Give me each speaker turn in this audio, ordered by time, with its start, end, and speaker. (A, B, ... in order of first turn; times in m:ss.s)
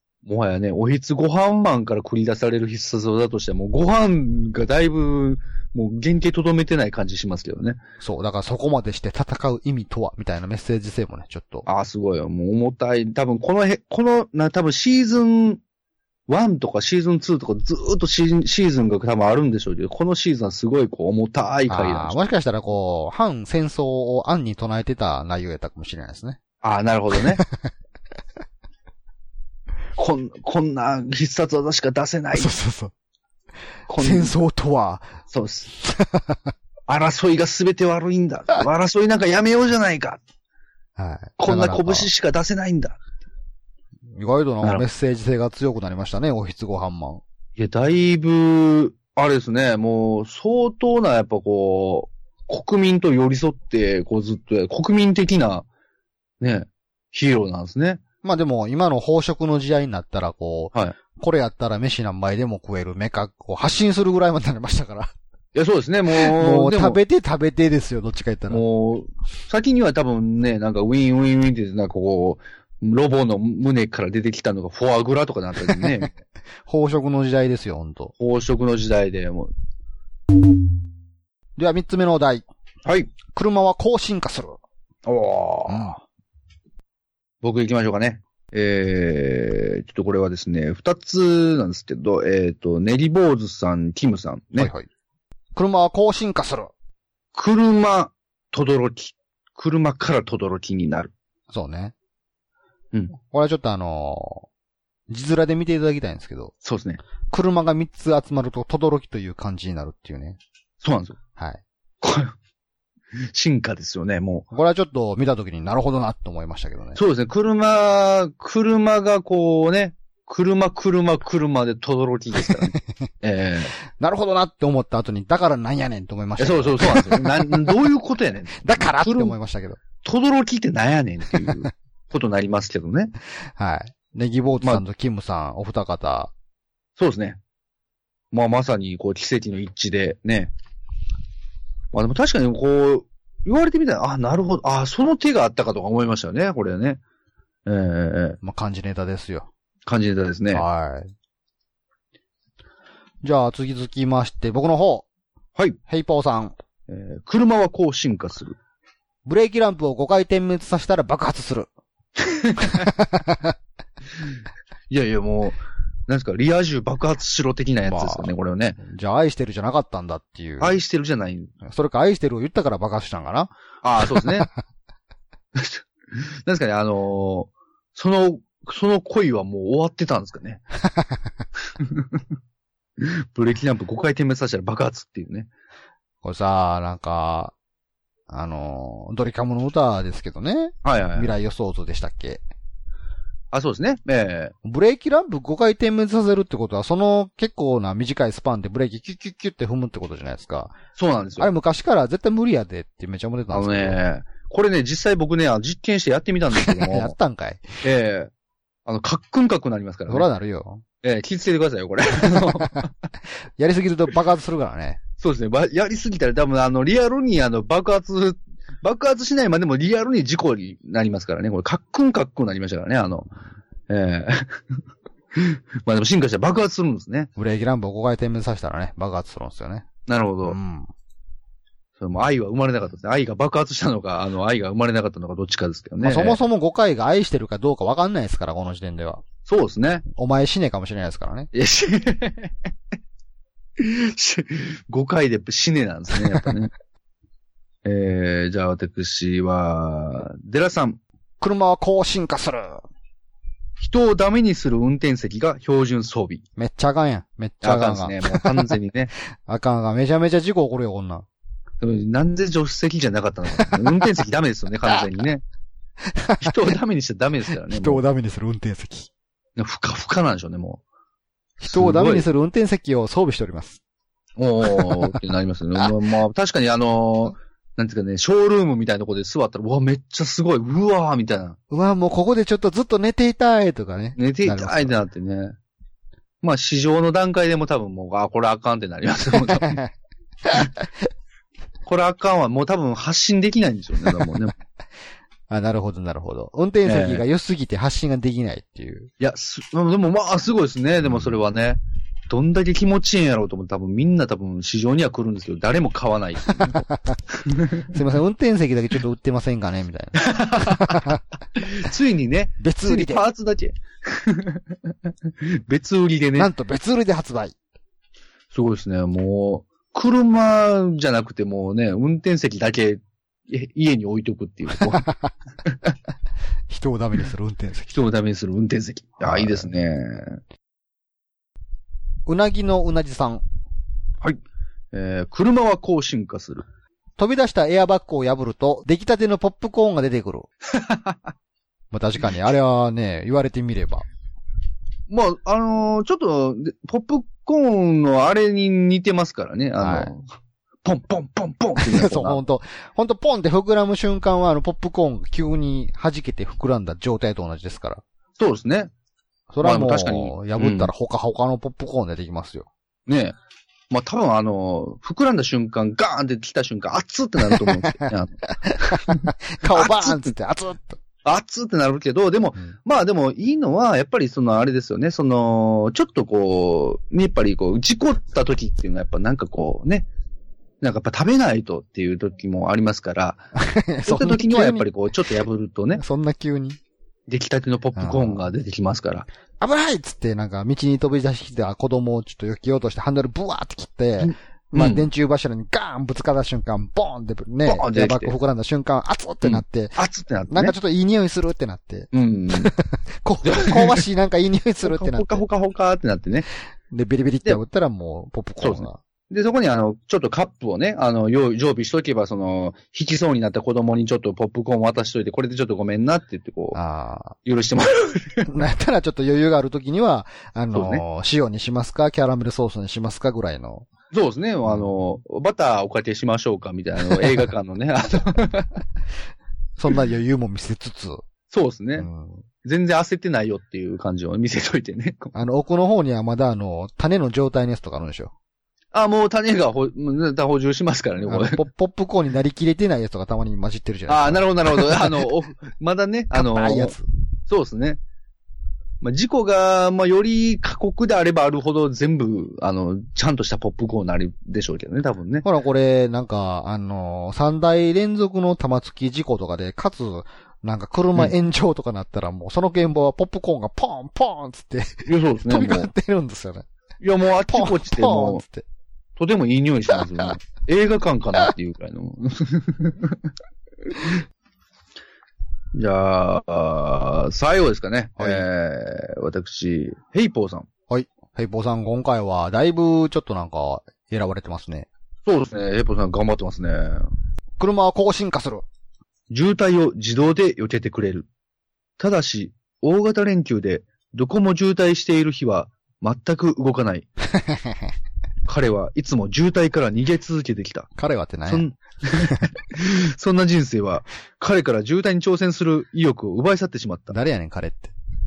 0:00.2-0:07.8 A
0:08.0-0:11.6 B
0:11.6-0:15.6 A
0:16.3-0:22.2 A
0:21.7-0:26.4 B
0:26.6-0:27.4 A
0:27.2-0:27.7 B
0:30.0-0:32.5 A
0:32.3-0:32.9 B
0:33.9-0:34.3 A
0:34.0-0:35.2 B
0:35.3-0:35.7 A
0:35.7-0:36.5 B
0:36.9-0:40.2 A
0:41.0-0:42.1 B
0:41.4-0:43.0 A
0:44.1-0:47.2 B
0:47.6-0:55.7 A
0:56.4-0:58.0 A
0:58.2-1:05.1 B
1:05.5-1:07.0 A
1:06.1-1:08.6 B
1:08.5-1:16.1 A
1:15.7-1:16.0 B
1:16.7-1:18.1 B
1:18.2-1:19.5 A
1:21.6-1:22.4 B
1:22.8-1:23.1 A
1:23.3-1:24.6 B
1:25.0-1:25.9 A
1:25.7-1:26.0 B
1:27.4-1:34.7 A
1:34.6-1:34.9 B
1:35.5-1:36.7 B
1:37.3-1:41.1 A
1:41.5-1:41.9 B
1:43.3-1:44.4 B
1:45.1-1:46.5 B
1:46.6-1:47.0 A
1:47.3-1:50.4 B
1:50.8-1:51.2 A
1:51.4-1:51.6 B
1:52.0-1:52.3 A
1:53.1-1:54.4 A
1:54.5-1:57.0 B
1:57.0-2:03.7 A
2:04.0-2:07.8 B
2:06.4-2:09.3 A
2:08.6-2:09.8 B
2:10.0-2:13.1 A
2:13.6-2:16.3 B
2:17.0-2:17.4 A
2:18.3-2:20.5 A
2:21.9-2:27.0 A
2:27.6-2:28.4 A
2:28.4-2:29.5 B
2:29.8-2:30.6 A
2:30.5-2:31.1 B
2:33.2-2:35.0 B
2:35.9-2:36.5 B
2:36.9-2:38.6 A
2:39.2-2:41.7 B
2:42.2-2:42.9 A
2:42.6-2:43.5 B
2:44.9-2:48.8 A
2:47.9-2:50.8 B
2:50.6-2:51.5 A
2:51.6-2:53.5 B
2:53.8-2:54.5 A
2:54.0-2:54.5 B
2:55.5-3:00.6 A
3:01.8-3:02.2 A
3:03.0-3:05.5 A
3:06.2-3:07.5 B
3:08.3-3:12.4 B
3:10.8-3:11.3 A
3:13.5-3:14.5 A
3:14.6-3:20.8 B
3:21.0-3:21.5 A
3:21.4-3:24.0 B
3:23.5-3:27.1 A
3:26.6-3:27.8 B
3:27.8-3:28.3 A
3:28.8-3:30.3 A
3:30.1-3:30.8 B
3:31.0-3:32.9 A
3:32.3-3:32.8 B
3:33.6-3:35.0 B
3:35.2-3:43.3 A
3:43.9-3:44.8 A
3:45.3-3:47.3 A
3:47.4-3:49.8 B
3:50.1-3:50.6 A
3:50.4-3:50.9 B
3:52.0-3:56.4 A
3:56.0-3:59.2 B
3:59.4-4:00.0 A
4:00.1-4:01.5 B
4:01.5-4:02.7 A
4:03.8-4:06.7 A
4:07.8-4:11.0 A
4:11.4-4:12.8 B
4:13.8-4:16.4 A
4:16.6-4:18.7 B
4:17.6-4:19.1 A
4:19.4-4:21.2 B
4:21.8-4:25.4 A
4:23.6-4:23.8 B
4:26.1-4:26.7 B
4:26.4-4:28.0 A
4:27.7-4:29.1 B
4:29.6-4:30.8 A
4:31.6-4:32.3 A
4:31.6-4:33.8 B
4:34.4-4:41.6 A
4:34.7-4:35.1 B
4:41.7-4:45.0 B
4:44.2-4:45.5 A
4:46.4-4:49.8 A
4:49.6-4:49.9 B
4:50.4-4:50.8 B
4:51.8-4:54.5 A
4:55.5-4:59.1 B
4:56.8-4:57.2 A
4:59.2-5:07.9 A
5:06.7-5:07.2 B
5:07.8-5:11.2 B
5:10.2-5:16.5 A
5:12.6-5:13.2 B
5:16.3-5:17.5 B
5:18.5-5:25.0 A
5:24.8-5:25.3 B
5:25.6-5:25.9 A
5:26.7-5:28.0 B
5:27.9-5:30.4 A
5:29.2-5:29.7 B
5:32.2-5:33.4 B
5:34.9-5:36.6 A
5:37.2-5:40.5 B
5:40.7-5:41.2 A
5:41.9-5:44.0 B
5:45.1-5:50.2 A
5:49.8-5:50.1 B
5:50.8-5:52.4 A
5:51.8-5:58.0 B
5:58.4-5:58.9 A
5:59.5-6:02.7 B
5:59.6-6:00.9 A
6:03.1-6:03.4 A
6:03.9-6:10.3 A
6:07.4-6:11.0 B
6:11.2-6:20.1 A
6:20.8-6:23.5 A
6:23.5-6:24.9 B
6:24.0-6:26.0 A
6:26.0-6:26.8 B
6:27.3-6:29.3 A
6:28.0-6:28.4 B
6:29.6-6:40.0 B
6:34.2-6:35.1 A
6:37.6-6:38.3 A
6:39.4-6:40.7 A
6:40.5-6:45.4 B
6:42.1-6:42.7 A
6:43.4-6:44.0 A
6:44.8-6:46.5 A
6:46.9-6:49.0 B
6:48.6-6:56.8 A
6:56.7-6:57.4 B
6:57.4-6:58.5 A
6:58.4-7:03.8 B
7:00.7-7:01.0 A
7:04.1-7:08.8 A
7:09.8-7:11.2 B
7:11.5-7:12.1 A
7:12.0-7:12.4 B
7:12.6-7:15.3 A
7:15.3-7:18.3 B
7:18.9-7:21.6 A
7:21.3-7:25.2 B
7:24.1-7:26.9 A
7:26.3-7:27.0 B
7:27.5-7:28.0 A
7:29.0-7:35.4 A
7:35.4-7:46.6 B
7:45.0-7:45.9 A
7:47.0-7:48.4 A
7:47.5-7:48.6 B
7:49.2-7:53.3 A
7:53.8-7:54.2 A
7:55.7-8:00.7 A
7:58.2-7:58.4 B
8:00.9-8:04.9 B
8:05.2-8:07.1 A
8:07.6-8:08.6 B
8:09.3-8:11.3 A
8:12.0-8:17.0 A
8:17.3-8:17.9 B
8:18.4-8:20.9 A
8:21.0-8:21.6 B
8:21.5-8:27.1 A
8:22.2-8:22.5 B
8:27.1-8:27.9 B